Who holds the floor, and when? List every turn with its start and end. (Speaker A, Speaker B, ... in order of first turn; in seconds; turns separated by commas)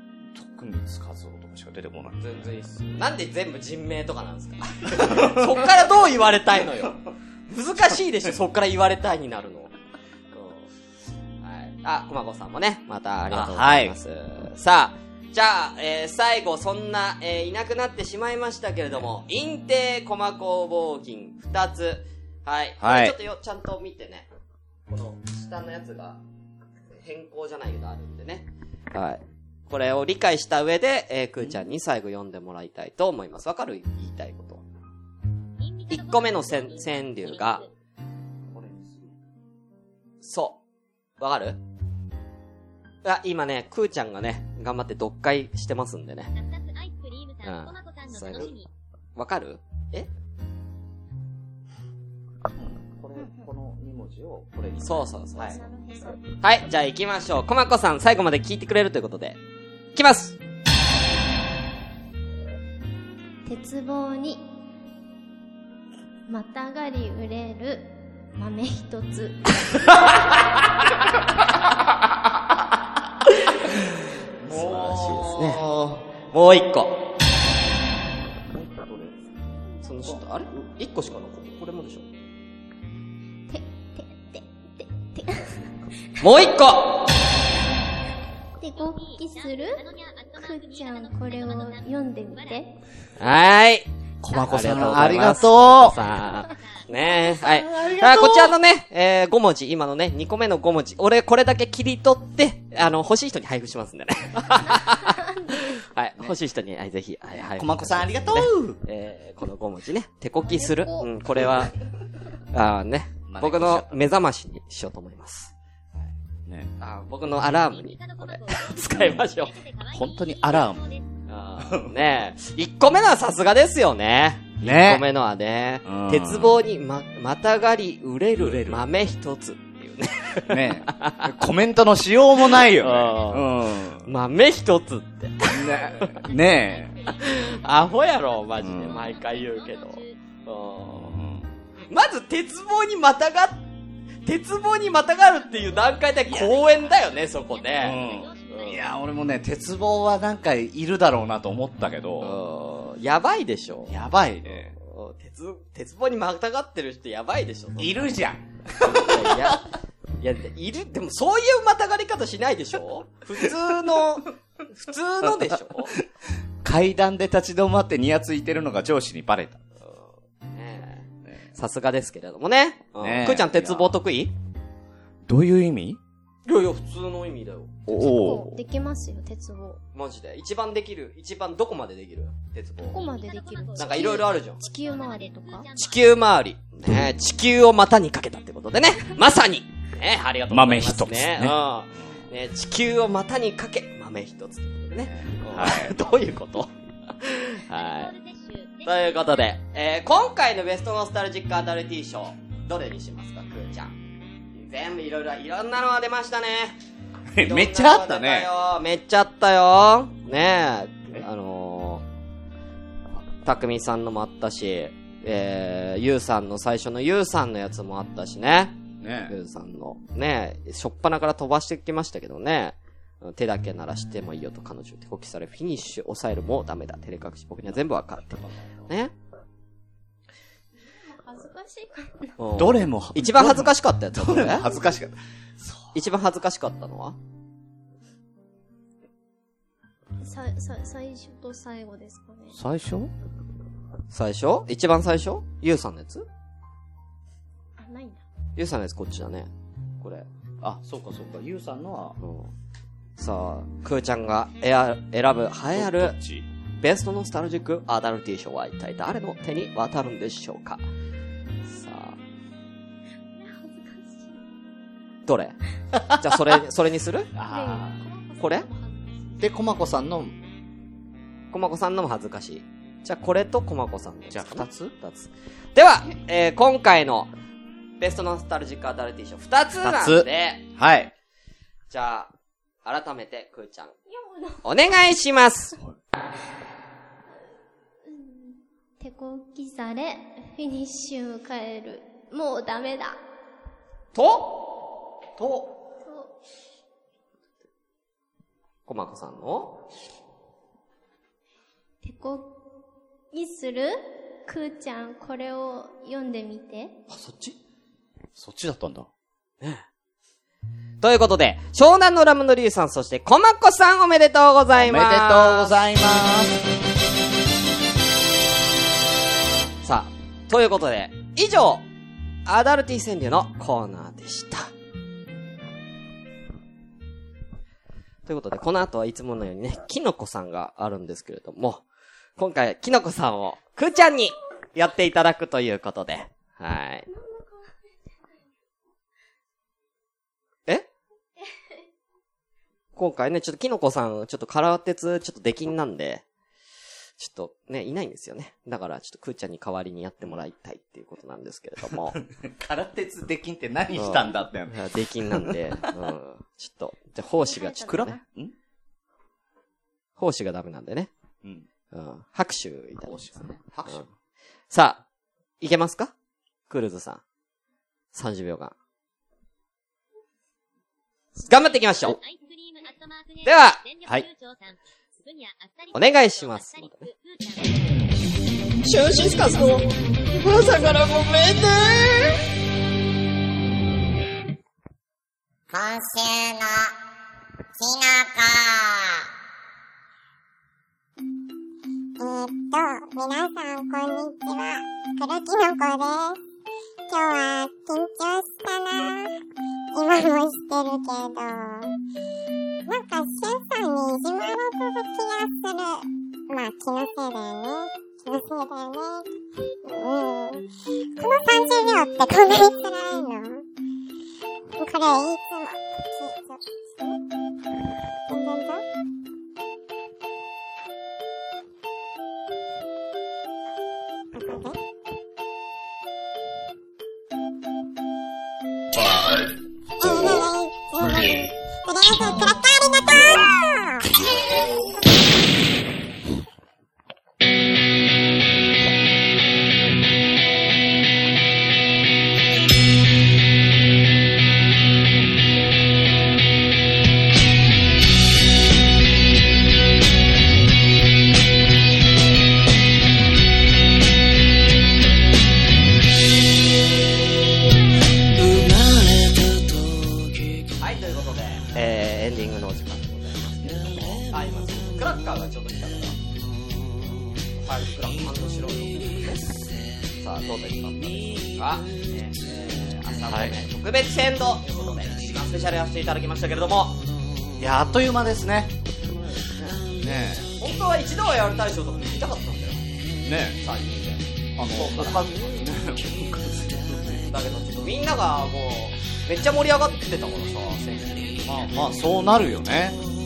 Speaker A: 0.3-2.6, Speaker B: 2.2-9.7, Speaker A: 5.0-5.6, Speaker B: 10.3-10.7, Speaker B: 11.4-24.3, Speaker A: 13.3-14.0, Speaker A: 22.8-23.1, Speaker B: 24.9-26.2, Speaker B: 26.9-34.6, Speaker A: 31.4-31.7, Speaker C: 35.6-37.7, Speaker B: 35.9-37.6, Speaker A: 38.5-39.1, Speaker B: 40.2-40.6, Speaker B: 41.2-41.6, Speaker B: 43.0-46.3, Speaker C: 46.3-48.7, Speaker B: 47.4-48.5, Speaker B: 49.1-50.1, Speaker A: 52.5-55.6, Speaker B: 54.8-55.6, Speaker D: 55.4-56.2, Speaker B: 56.4-59.4, Speaker B: 59.9-60.4, Speaker D: 63.5-64.4, Speaker D: 66.3-70.1, Speaker A: 74.4-75.9, Speaker B: 74.5-77.0, Speaker A: 78.4-79.2, Speaker B: 79.8-82.1, Speaker D: 83.5-85.7, Speaker B: 86.2-87.3, Speaker D: 88.6-89.8, Speaker C: 88.7-92.7, Speaker D: 90.3-92.7, Speaker B: 93.2-111.7, Speaker A: 94.2-96.0, Speaker C: 94.7-95.1, Speaker C: 95.6-97.3, Speaker A: 97.3-98.6, Speaker D: 105.1-105.5, Speaker A: 107.3-108.8, Speaker D: 110.4-111.1, Speaker B: 112.5-115.5, Speaker A: 113.3-114.0, Speaker A: 116.5-116.7, Speaker B: 116.8-119.6, Speaker C: 117.5-121.2, Speaker A: 118.9-119.2, Speaker A: 119.9-120.9, Speaker B: 121.3-131.3, Speaker A: 121.6-122.0, Speaker A: 124.6-125.0, Speaker A: 125.8-126.6, Speaker A: 128.3-128.8, Speaker A: 130.5-134.1, Speaker B: 132.4-136.2, Speaker A: 135.5-137.0, Speaker C: 136.1-140.2, Speaker B: 137.1-141.2, Speaker A: 138.6-139.1, Speaker A: 140.9-141.5, Speaker B: 141.9-143.6, Speaker B: 144.2-148.8, Speaker C: 145.3-148.9, Speaker A: 146.2-146.7, Speaker A: 147.8-152.4, Speaker B: 152.2-158.0, Speaker A: 153.9-154.7, Speaker A: 157.8-159.6, Speaker B: 158.8-159.7, Speaker B: 160.2-166.0, Speaker A: 166.6-169.6, Speaker B: 169.8-174.3, Speaker A: 173.0-174.0, Speaker A: 175.2-176.0, Speaker B: 176.4-177.8, Speaker A: 177.9-178.6, Speaker D: 177.9-179.8, Speaker B: 179.9-183.0, Speaker D: 182.9-185.7, Speaker C: 182.9-186.2, Speaker B: 183.8-184.6, Speaker B: 185.8-198.1, Speaker A: 190.5-192.2, Speaker A: 195.0-196.0, Speaker C: 197.7-199.5, Speaker B: 198.8-203.9, Speaker B: 204.5-206.8, Speaker A: 207.3-208.5, Speaker B: 207.4-212.0, Speaker B: 213.4-218.8, Speaker A: 219.0-219.3, Speaker B: 219.3-229.1, Speaker D: 231.0-232.4, Speaker B: 232.4-234.7, Speaker A: 232.5-235.9, Speaker B: 235.9-237.2, Speaker D: 240.2-242.6, Speaker A: 242.5-243.1, Speaker B: 244.1-246.3, Speaker D: 247.8-248.2, Speaker B: 248.6-250.3, Speaker A: 250.6-252.2, Speaker B: 252.2-252.5, Speaker B: 253.2-256.1, Speaker A: 255.7-256.5, Speaker B: 256.8-260.8, Speaker B: 261.6-262.2, Speaker D: 263.4-264.4, Speaker B: 265.2-265.6, Speaker A: 265.9-266.6, Speaker B: 266.1-267.3, Speaker A: 267.3-268.0, Speaker D: 267.4-269.5, Speaker B: 268.4-268.7, Speaker A: 269.4-270.4, Speaker B: 271.5-277.3, Speaker A: 274.3-274.9, Speaker B: 278.0-280.6, Speaker A: 279.7-281.1, Speaker B: 281.9-282.3, Speaker B: 282.8-283.9, Speaker D: 284.1-284.7, Speaker B: 284.6-285.8, Speaker D: 288.1-293.2, Speaker B: 294.1-294.7, Speaker A: 295.4-295.7, Speaker D: 296.0-296.3, Speaker B: 298.9-299.8, Speaker D: 302.0-302.6, Speaker D: 303.3-306.9, Speaker B: 307.1-307.6, Speaker A: 308.4-309.1, Speaker B: 309.6-309.9, Speaker B: 311.0-315.7, Speaker A: 314.8-316.6, Speaker B: 319.8-321.8, Speaker B: 322.4-324.7, Speaker B: 328.2-331.8, Speaker B: 332.4-337.1, Speaker D: 337.1-337.8, Speaker B: 342.9-346.2, Speaker B: 347.2-352.2, Speaker A: 351.8-355.9, Speaker B: 353.9-358.2, Speaker D: 357.4-358.2, Speaker A: 357.8-358.5, Speaker B: 360.2-361.1, Speaker B: 361.9-363.3, Speaker A: 363.0-364.0, Speaker B: 364.7-365.0, Speaker B: 365.6-366.1, Speaker B: 366.7-367.2, Speaker B: 368.1-368.7, Speaker B: 371.4-372.2, Speaker C: 372.0-378.0, Speaker B: 373.4-374.2, Speaker B: 375.9-377.1, Speaker B: 378.8-382.4, Speaker E: 385.7-386.9, Speaker E: 387.8-389.2, Speaker E: 392.2-396.4, Speaker E: 397.1-399.3, Speaker E: 399.9-401.9, Speaker E: 402.9-409.2, Speaker E: 409.8-410.6, Speaker E: 411.2-413.6, Speaker E: 414.8-417.1, Speaker E: 418.3-418.8, Speaker E: 424.3-424.8, Speaker E: 429.0-429.4, Speaker E: 430.0-434.7, Speaker B: 460.8-466.2, Speaker B: 467.6-469.5, Speaker B: 470.1-477.0, Speaker A: 473.3-473.6, Speaker A: 477.6-478.7, Speaker B: 479.0-482.8, Speaker A: 479.9-480.4, Speaker A: 483.2-483.6, Speaker B: 483.6-485.6, Speaker A: 484.6-487.3, Speaker B: 487.3-491.8, Speaker A: 491.4-493.0